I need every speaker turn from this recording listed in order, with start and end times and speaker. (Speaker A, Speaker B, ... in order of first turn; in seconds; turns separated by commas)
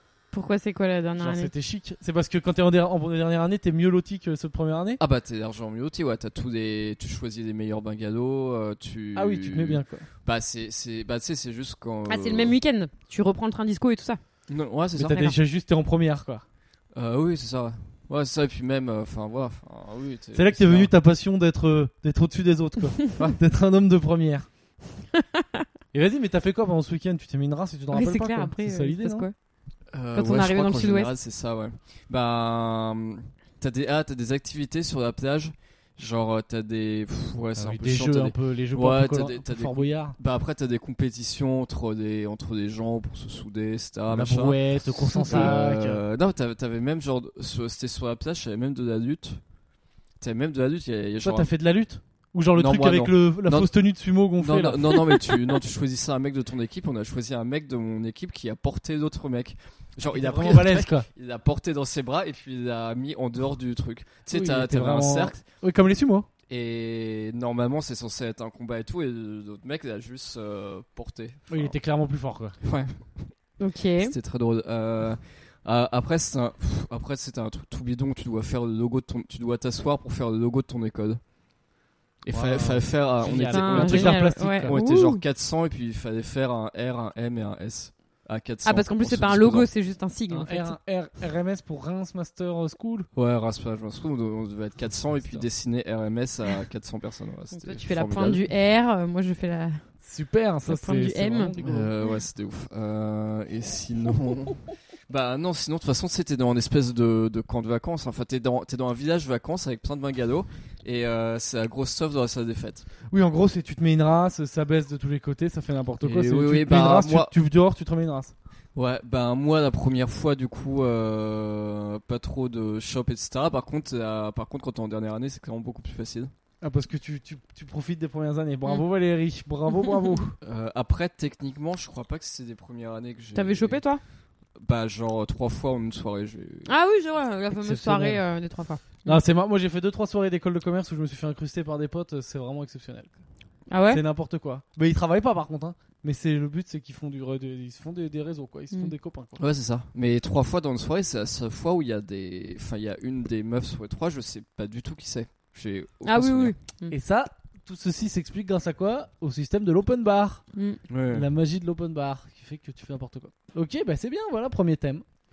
Speaker A: 0.3-1.5, Speaker B: 1.2-5.0, Speaker C: 5.0-12.6, Speaker B: 9.2-10.1, Speaker A: 12.1-14.2, Speaker C: 14.5-15.3, Speaker B: 15.0-16.4, Speaker C: 17.0-20.9, Speaker B: 20.4-24.5, Speaker B: 25.9-29.3, Speaker A: 27.9-29.3, Speaker C: 29.9-49.4, Speaker A: 30.1-31.1, Speaker B: 37.6-40.2, Speaker B: 44.1-46.0, Speaker A: 45.2-45.5, Speaker C: 50.2-51.5, Speaker B: 51.2-55.2, Speaker C: 52.5-53.7, Speaker C: 54.4-65.4, Speaker B: 60.1-61.1, Speaker B: 64.3-66.3, Speaker C: 66.5-71.8, Speaker B: 71.5-72.6, Speaker C: 72.6-73.3, Speaker A: 73.6-74.1, Speaker C: 74.0-81.2, Speaker C: 82.2-89.7, Speaker B: 82.3-84.8, Speaker A: 83.5-85.2, Speaker A: 88.7-90.8, Speaker B: 90.3-93.1, Speaker C: 93.2-98.4, Speaker B: 95.2-95.5, Speaker A: 97.5-99.9, Speaker B: 100.0-101.9, Speaker A: 100.7-101.6, Speaker C: 101.6-112.9, Speaker B: 113.1-118.3, Speaker C: 116.0-117.3, Speaker C: 118.8-126.3, Speaker B: 126.6-130.3, Speaker A: 129.8-130.2, Speaker C: 130.4-133.8, Speaker A: 133.3-134.0, Speaker C: 134.6-136.7, Speaker A: 136.7-139.2, Speaker B: 137.6-138.2, Speaker B: 139.1-143.1, Speaker A: 143.7-144.0, Speaker B: 143.9-149.4, Speaker C: 149.4-156.6, Speaker A: 156.0-157.0, Speaker B: 156.9-160.4, Speaker A: 160.5-160.8, Speaker C: 160.9-161.3, Speaker B: 161.1-165.0